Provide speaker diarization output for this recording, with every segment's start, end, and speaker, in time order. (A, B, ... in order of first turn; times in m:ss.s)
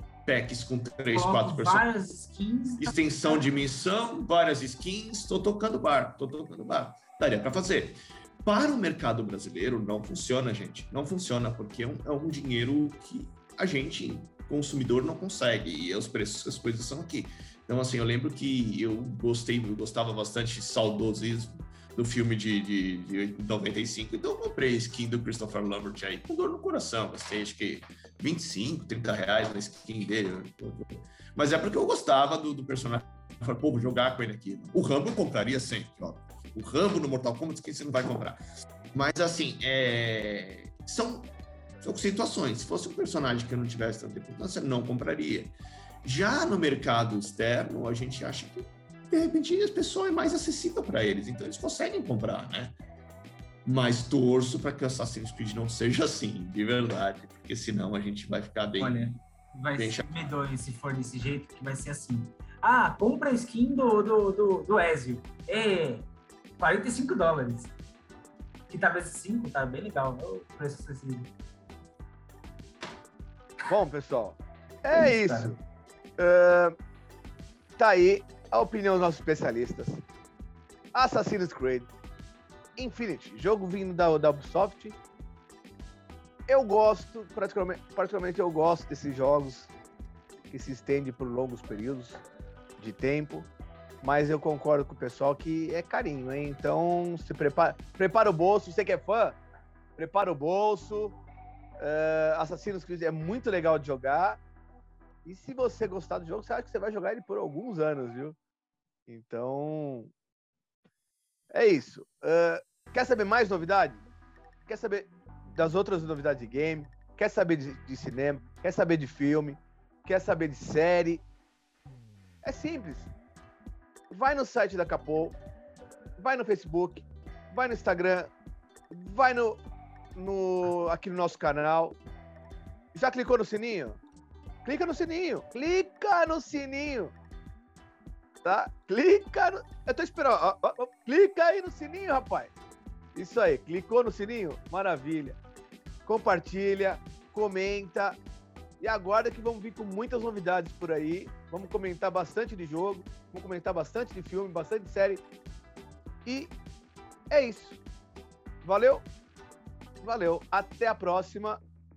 0:00.3-0:01.9 A
0:01.1-0:03.5 B
0:02.8-0:38.4 A
0:38.9-0:41.3 A
0:41.8-0:52.8 A
0:53.6-0:59.2 A
0:58.8-1:06.1 B
0:59.8-1:00.4 A
1:06.6-1:07.7 B
1:08.7-1:11.3 B
1:13.7-1:15.6 C
1:14.9-1:15.6 B
1:16.2-1:16.8 C
1:17.8-1:20.0 C
1:20.9-1:21.9 C
1:22.8-1:25.0 C
1:26.5-1:29.7 C
1:30.5-1:32.2 C
1:32.8-1:33.5 C
1:34.0-1:39.4 C
1:40.0-1:41.2 C
1:41.8-1:44.4 C
1:45.2-1:48.4 C
1:49.1-1:50.1 C
1:51.5-1:54.0 C
1:54.7-2:01.2 C
2:02.4-2:03.1 C
2:04.1-2:05.4 C
2:06.2-2:08.3 C
2:08.9-2:09.6 C
2:10.2-2:12.0 C
2:12.9-2:14.0 C
2:14.6-2:17.1 C
2:18.4-2:22.5 C
2:23.2-2:25.4 C
2:26.1-2:28.2 C
2:28.8-2:35.2 C
2:36.3-2:36.5 C
2:37.3-2:37.8 C
2:38.6-2:39.1 C
2:40.0-2:41.6 C